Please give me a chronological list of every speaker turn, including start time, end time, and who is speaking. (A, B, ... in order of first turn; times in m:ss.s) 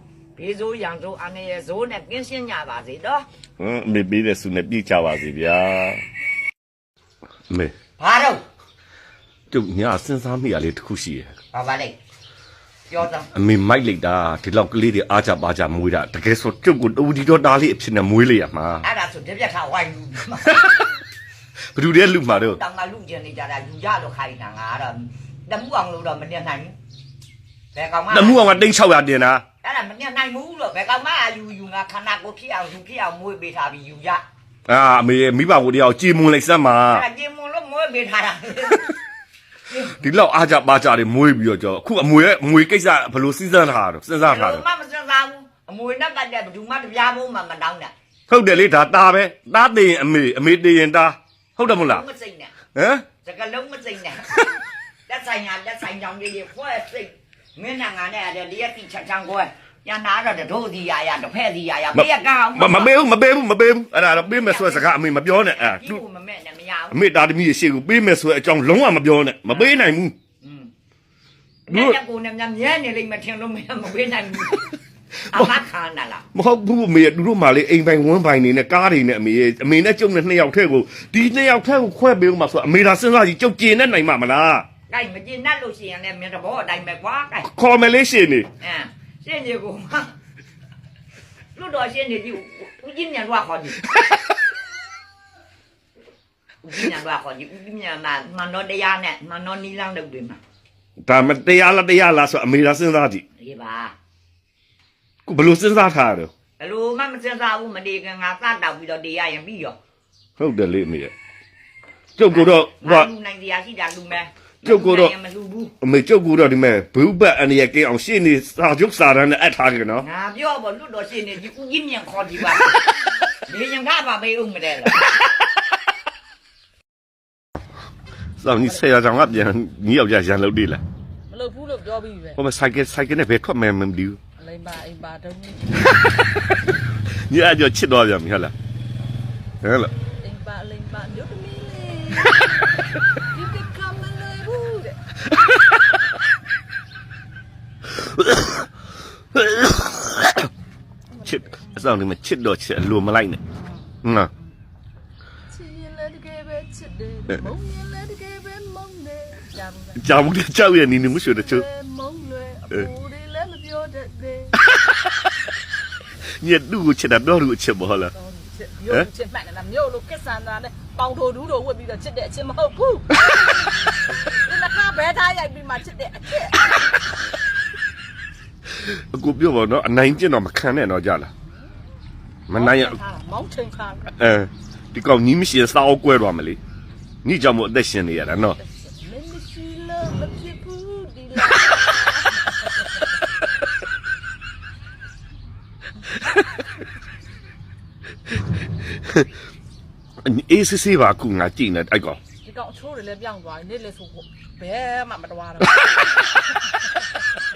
0:00.4-0:03.2 A
0:03.6-0:06.0 B
0:07.5-0:07.7 B
0:08.0-0:08.4 A
0:09.5-0:11.3 B
0:11.5-0:12.0 A
0:12.9-0:13.3 A
0:13.3-0:18.9 B
0:18.8-0:20.8 A
0:21.7-0:22.6 B
0:22.2-0:26.7 A
0:27.7-0:28.6 A
0:28.1-0:29.4 B
0:29.6-0:34.2 A
0:34.7-0:37.0 B
0:36.9-0:38.9 A
0:39.7-0:40.0 A
0:40.0-0:44.6 B
0:44.2-0:47.9 A
0:48.3-0:52.0 B
0:51.7-0:52.5 A
0:52.7-0:53.1 B
0:53.2-1:02.9 A
1:01.9-1:06.0 B
1:04.0-1:07.0 A
1:06.9-1:10.1 B
1:10.4-1:10.7 A
1:11.7-1:14.7 A
1:11.7-1:12.0 B
1:15.3-1:16.2 A
1:16.3-1:24.6 B
1:24.9-1:27.5 A
1:27.4-1:28.5 B
1:28.6-1:30.1 A
1:31.6-1:33.8 A
1:36.6-1:40.4 A
1:41.0-1:43.2 B
1:43.4-1:43.9 A
1:45.2-1:46.3 B
1:46.6-1:49.8 A
1:50.4-1:51.1 B
1:52.2-1:53.1 B
1:52.2-1:55.7 A
1:54.6-1:55.1 B
1:55.8-2:00.0 B
2:00.0-2:02.8 A
2:03.4-2:05.1 A
2:08.4-2:10.8 B
2:11.3-2:12.4 C
2:12.4-2:14.2 B
2:14.4-2:16.0 C
2:17.3-2:18.5 B
2:19.6-2:19.9 B
2:20.2-2:25.0 C
2:28.0-2:28.7 B
2:29.3-2:30.5 B
2:31.1-2:31.8 C
2:31.2-2:33.4 B
2:33.6-2:34.5 C
2:34.0-2:34.3 B
2:35.5-2:40.1 C
2:40.0-2:41.6 B
2:41.2-2:44.6 C
2:46.4-2:48.1 B
2:48.1-2:57.1 C
2:58.8-3:01.3 B
3:02.5-3:03.0 B
3:02.5-3:04.1 C
3:04.2-3:06.6 B
3:07.2-3:08.6 B
3:08.6-3:13.0 C
3:18.9-3:19.3 B
3:20.2-3:22.2 B
3:22.4-3:26.3 C